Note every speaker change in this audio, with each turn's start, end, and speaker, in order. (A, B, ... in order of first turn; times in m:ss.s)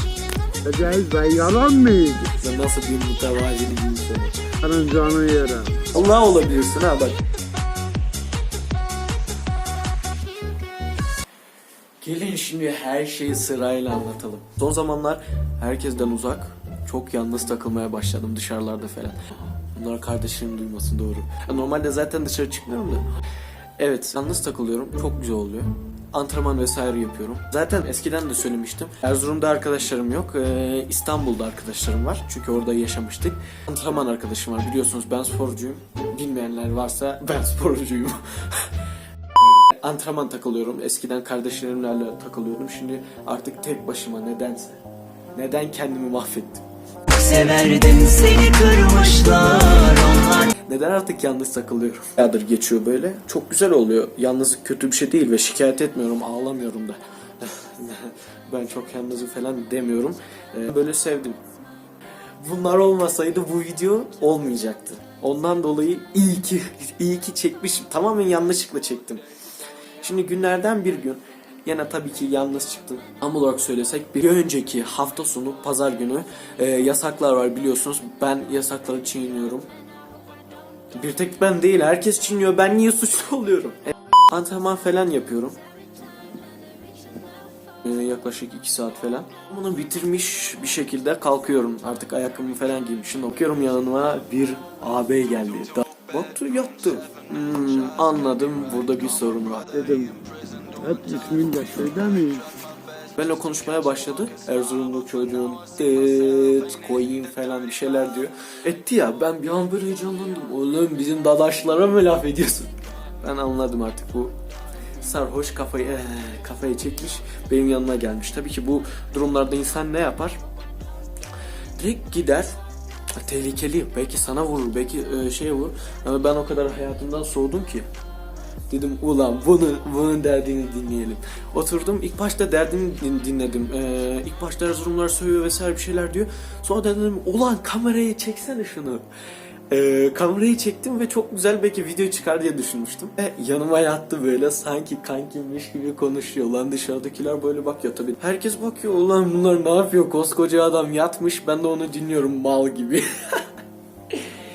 0:00.6-0:02.3 A
0:02.4-0:04.4 B
0:04.6-0:05.8 A
0:05.9-0:07.2 B
0:12.0-0:23.1 B
0:23.8-0:38.7 B
0:39.5-0:44.8 B
0:45.3-0:46.6 B
0:47.1-0:50.4 C
0:49.4-1:01.4 B
1:02.4-1:09.2 B
1:10.0-1:19.7 B
1:20.9-1:25.6 B
1:27.8-1:39.7 B
1:39.7-1:40.2 A
1:40.8-1:42.4 A
1:43.2-1:54.3 B
1:55.0-2:00.4 B
2:01.8-2:02.6 B
2:03.2-2:07.9 B
2:08.7-2:19.0 B
2:19.7-2:33.4 B